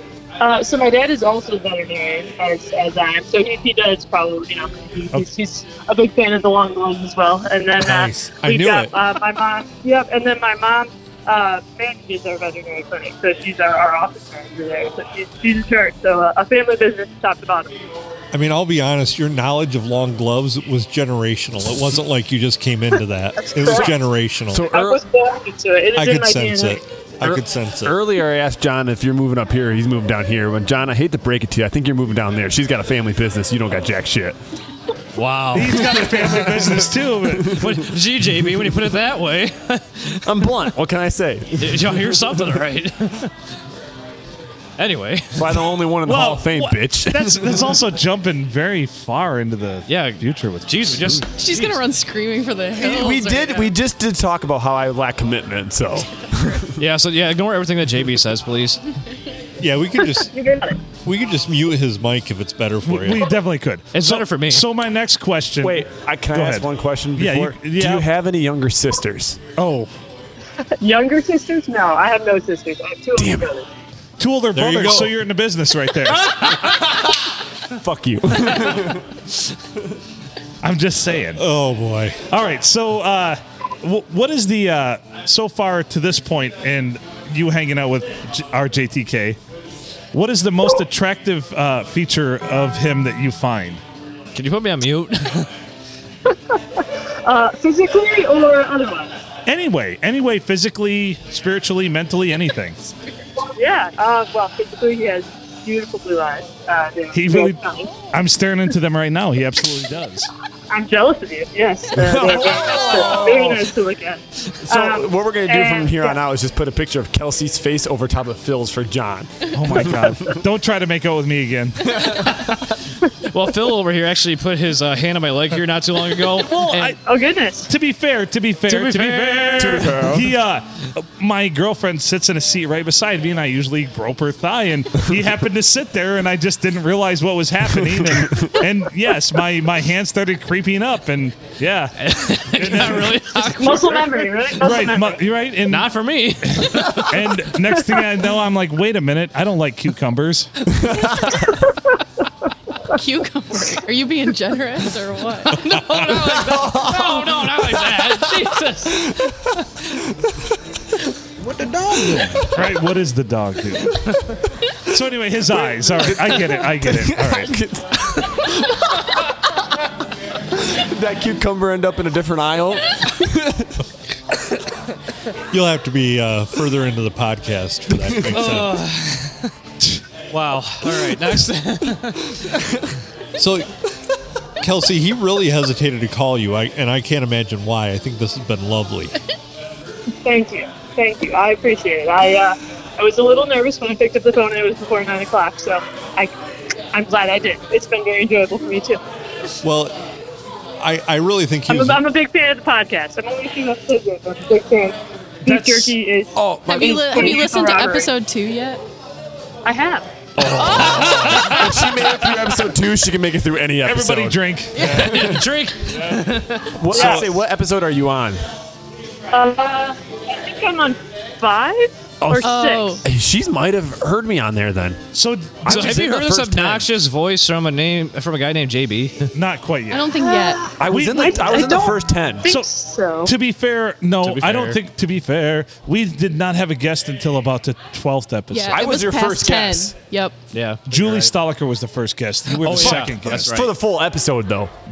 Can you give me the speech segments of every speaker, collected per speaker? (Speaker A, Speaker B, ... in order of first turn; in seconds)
Speaker A: 0.4-17.8, 23.4-23.9, 24.7-26.8, 60.1-60.8, 70.8-73.7, 96.3-99.1, 103.5-108.0, 110.7-116.2, 127.0-127.7, 143.4-145.2, 151.4-152.2, 190.2-196.3, 196.9-199.0, 201.7-208.1, 209.6-210.1, 216.9-217.3, 219.3-223.0, 230.2-233.3
Speaker B: 7.8-8.9, 18.3-24.7, 25.9-28.0, 59.6-60.3, 61.0-63.3, 74.5-75.2, 81.3-82.2, 175.5-178.8, 183.4-183.7, 184.6-189.2, 199.6-200.0, 200.8-202.0, 216.9-217.3
Speaker C: 23.6-23.9, 24.5-25.0, 27.2-34.4, 35.8-37.7, 40.2-42.6, 45.4-47.7, 52.8-56.8, 65.6-69.4, 73.2-73.5, 76.7-77.0, 77.7-79.0, 112.0-113.6, 114.6-120.4, 121.9-122.3, 129.6-130.3, 137.9-138.6, 150.7-151.5, 155.9-159.3, 160.1-160.3, 161.4-162.6, 165.5-169.2, 170.5-173.7, 177.9-178.4, 206.3-207.4, 210.4-215.4, 216.7-218.4, 222.2-222.5, 223.0-225.0, 225.6-226.9, 230.8-232.5, 238.7-239.9, 242.7-244.8
Speaker D: 35.1-36.4, 37.5-40.3, 41.6-43.3, 44.8-45.6, 49.9-51.8, 56.8-58.8, 63.9-64.6, 94.3-95.5, 123.3-127.0, 128.7-129.6, 142.0-144.3, 145.7-147.2, 155.5-159.2, 164.0-164.3, 178.3-179.5, 180.3-182.5, 214.8-216.8, 225.7-229.3, 234.2-234.8, 240.5-241.3, 242.6-243.7
Speaker E: 35.5-37.7, 46.0-51.2, 62.8-68.1, 69.6-69.9, 74.2-76.6, 80.6-81.4, 82.3-89.4, 90.1-93.8, 99.5-102.8, 107.1-110.3, 119.5-122.0, 126.4-127.0, 127.7-143.2, 144.6-150.7, 162.5-164.1, 164.9-167.5, 205.4-205.9, 210.6-212.0, 213.8-215.4, 225.1-226.0, 229.3-230.1, 230.9-231.7, 233.2-238.9, 240.9-243.6
Speaker F: 51.3-53.7, 152.9-155.8, 206.7-208.8, 214.8-215.1, 222.4-223.0, 229.9-230.7, 238.5-240.4